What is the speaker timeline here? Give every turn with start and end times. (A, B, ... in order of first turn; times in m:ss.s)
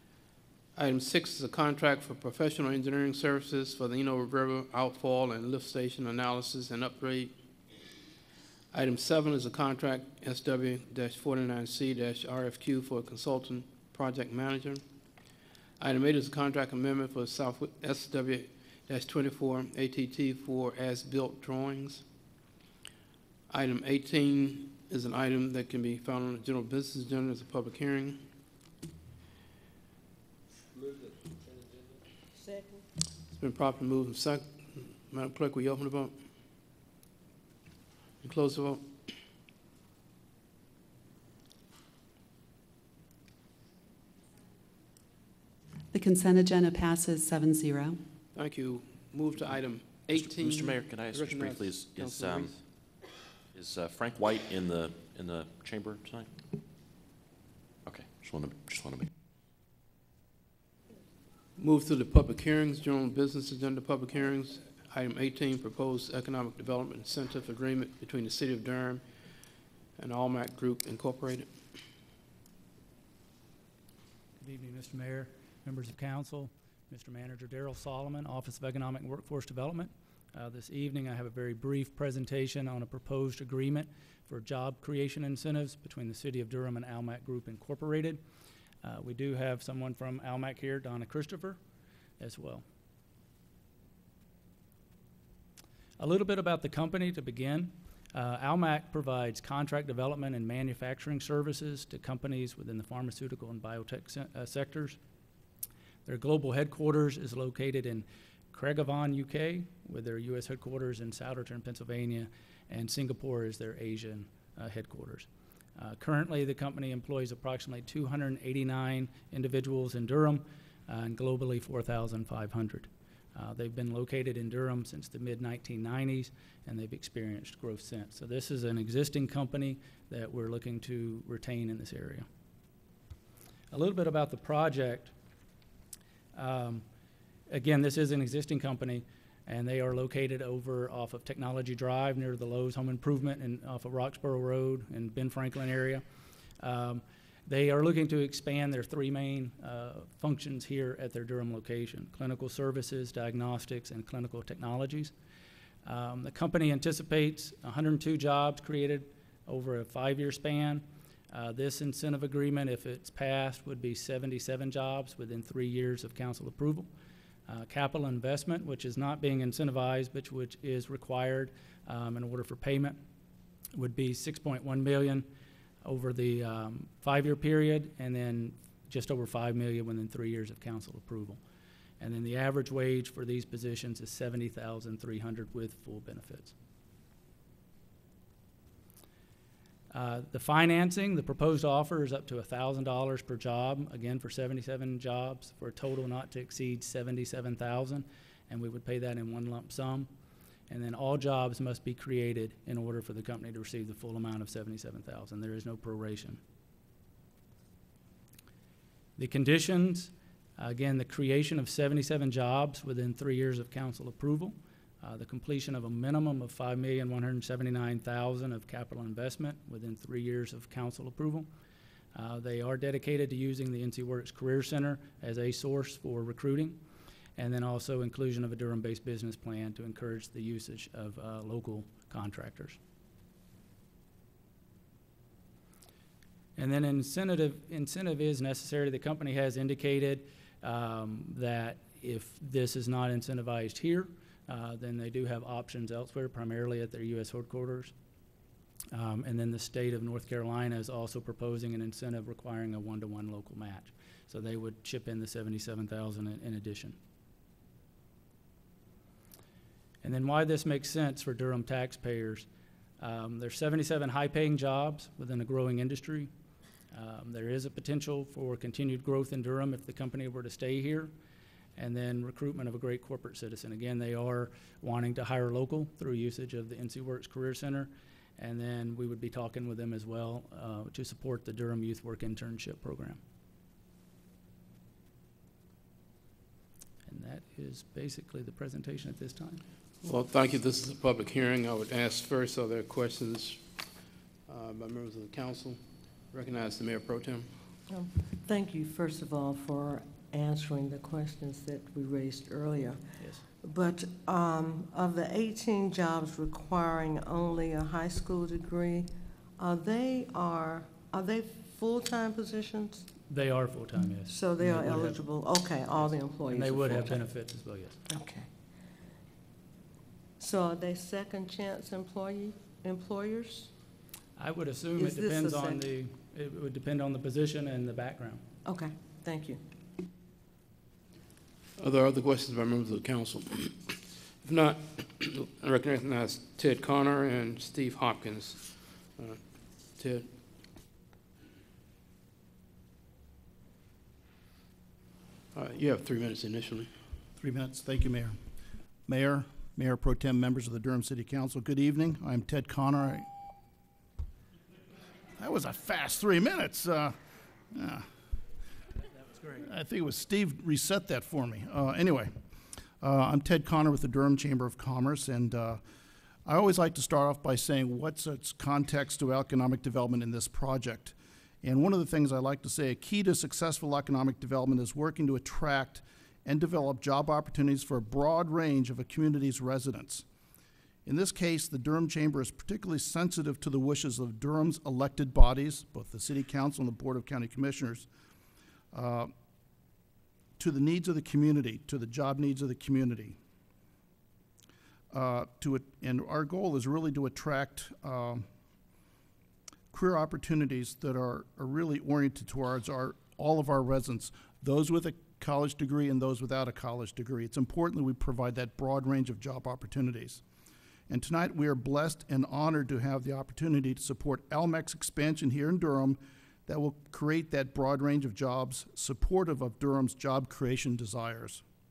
0:00.7-0:07.3 A
0:08.7-0:14.8 A
0:15.8-0:22.0 A
0:23.5-0:28.2 A
0:32.3-0:32.8 B
0:33.3-0:36.2 A
0:38.2-0:38.9 A
0:45.9-0:48.0 C
0:48.3-0:52.6 A
0:50.1-0:52.5 D
0:53.5-0:56.3 D
0:57.8-0:59.1 D
1:01.6-1:09.0 A
1:10.0-1:11.5 A
1:14.4-1:28.2 E
1:28.8-1:31.6 E
1:32.2-1:32.6 E
1:36.0-1:45.0 E
1:46.0-2:12.3 E
2:13.7-2:15.1 E
2:16.3-2:16.8 E
2:17.5-2:26.0 E
2:26.6-2:35.1 E
2:35.8-2:46.9 E
2:47.5-2:53.0 E
2:53.7-2:55.3 E
2:55.8-3:01.4 E
3:02.0-3:06.5 E
3:09.9-3:20.1 E
3:20.7-3:26.4 E
3:29.2-3:41.5 E
3:42.1-3:46.8 E
3:47.4-3:52.8 E
3:56.6-4:07.9 E
4:08.9-4:17.0 E
4:20.0-4:22.5 E
4:23.0-4:26.3 E
4:26.9-4:31.1 E
4:31.8-4:43.2 E
4:47.0-4:49.6 E
4:50.0-4:53.8 A
4:54.5-4:55.8 A
4:56.3-4:57.5 A
4:57.9-5:03.0 B
5:03.6-5:13.0 B
5:13.3-5:15.2 E
5:14.3-5:17.2 B
5:16.5-5:18.0 E
5:18.1-5:18.5 B
5:20.4-5:23.7 B
5:24.4-5:28.4 E
5:25.0-5:25.8 B
5:28.6-5:29.6 B
5:31.8-5:40.3 A
5:45.5-5:46.9 A
5:47.4-5:48.4 F
5:49.0-5:53.3 F
5:55.4-5:57.2 F
5:57.7-5:58.1 F
5:59.5-6:02.3 F
6:03.0-6:05.8 F
6:06.4-6:20.2 F
6:21.0-6:28.1 F
6:28.9-6:29.3 F
6:30.6-6:33.4 F
6:35.1-6:38.5 F
6:39.9-6:50.4 F
6:51.1-7:01.6 F